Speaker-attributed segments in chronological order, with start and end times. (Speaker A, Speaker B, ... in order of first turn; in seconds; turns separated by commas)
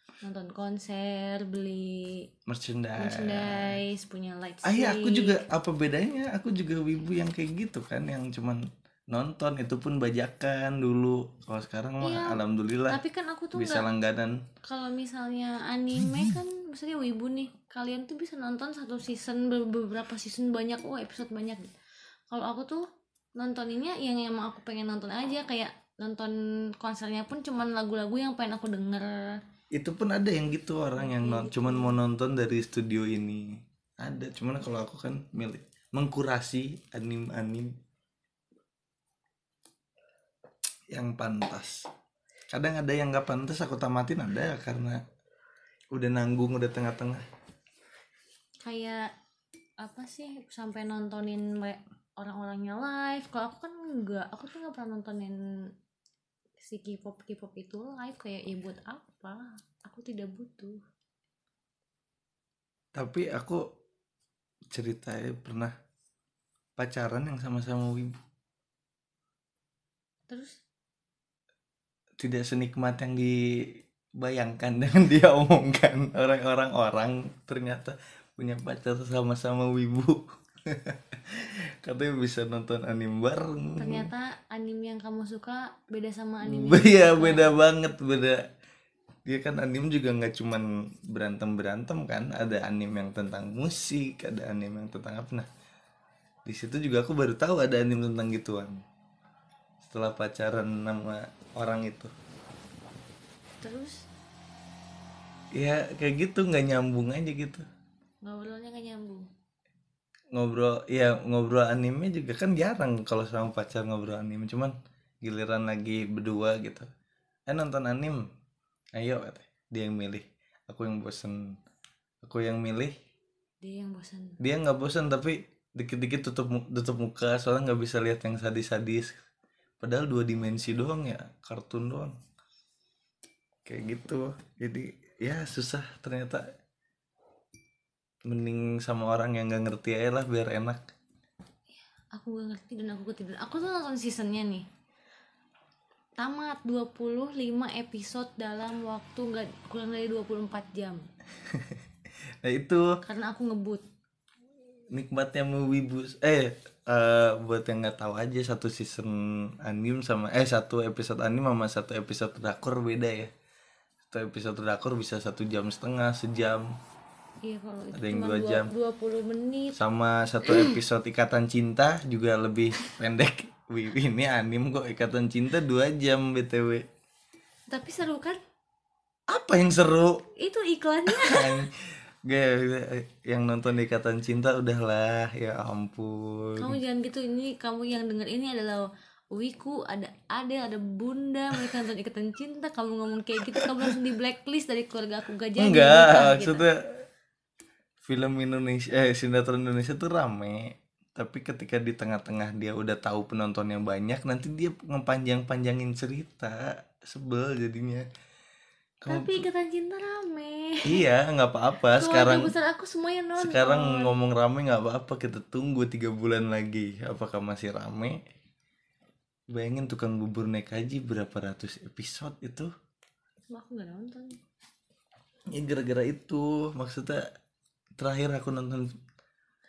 Speaker A: 0.2-2.2, Speaker B: 2.5-3.8, Speaker A: 3.0-5.4, Speaker B: 4.6-13.0, Speaker A: 12.0-13.9, Speaker B: 13.5-14.4, Speaker A: 14.6-21.7, Speaker A: 22.3-22.8, Speaker A: 23.4-29.4, Speaker B: 29.7-37.7, Speaker A: 31.0-32.0, Speaker B: 40.9-41.9, Speaker B: 42.5-45.0, Speaker B: 45.9-47.2, Speaker A: 48.6-49.1, Speaker A: 49.8-55.4, Speaker A: 56.6-60.8, Speaker B: 62.9-63.6, Speaker B: 64.7-65.7, Speaker B: 66.8-68.2, Speaker A: 70.3-70.6, Speaker B: 72.2-84.1, Speaker A: 83.8-87.5, Speaker B: 86.4-88.5, Speaker B: 89.2-95.5, Speaker B: 96.5-98.8, Speaker B: 99.8-102.1, Speaker A: 103.6-104.0, Speaker B: 105.5-107.7, Speaker A: 108.2-109.2, Speaker B: 110.3-116.9, Speaker B: 117.5-118.2, Speaker B: 118.9-121.6, Speaker B: 122.2-122.9, Speaker A: 123.6-124.4, Speaker B: 124.4-129.2, Speaker B: 129.8-132.2, Speaker B: 133.6-136.4, Speaker B: 138.2-140.8, Speaker A: 141.9-144.7, Speaker A: 146.2-151.1, Speaker B: 151.4-151.8, Speaker B: 152.4-152.9, Speaker A: 153.0-153.8, Speaker B: 154.9-163.3, Speaker B: 164.1-166.7, Speaker A: 167.4-169.8, Speaker B: 167.9-168.7, Speaker B: 169.7-176.8, Speaker A: 170.4-170.8, Speaker A: 177.7-178.4, Speaker B: 179.3-180.2, Speaker A: 180.4-181.7, Speaker B: 181.1-186.8, Speaker A: 186.6-196.6, Speaker B: 193.5-193.9, Speaker B: 195.6-197.0, Speaker B: 198.0-208.1, Speaker B: 209.0-209.4, Speaker A: 209.1-211.0, Speaker B: 210.8-212.5, Speaker A: 211.9-214.1, Speaker B: 213.4-218.2, Speaker B: 219.5-222.7, Speaker A: 223.5-224.4, Speaker B: 225.5-227.2, Speaker B: 228.0-228.8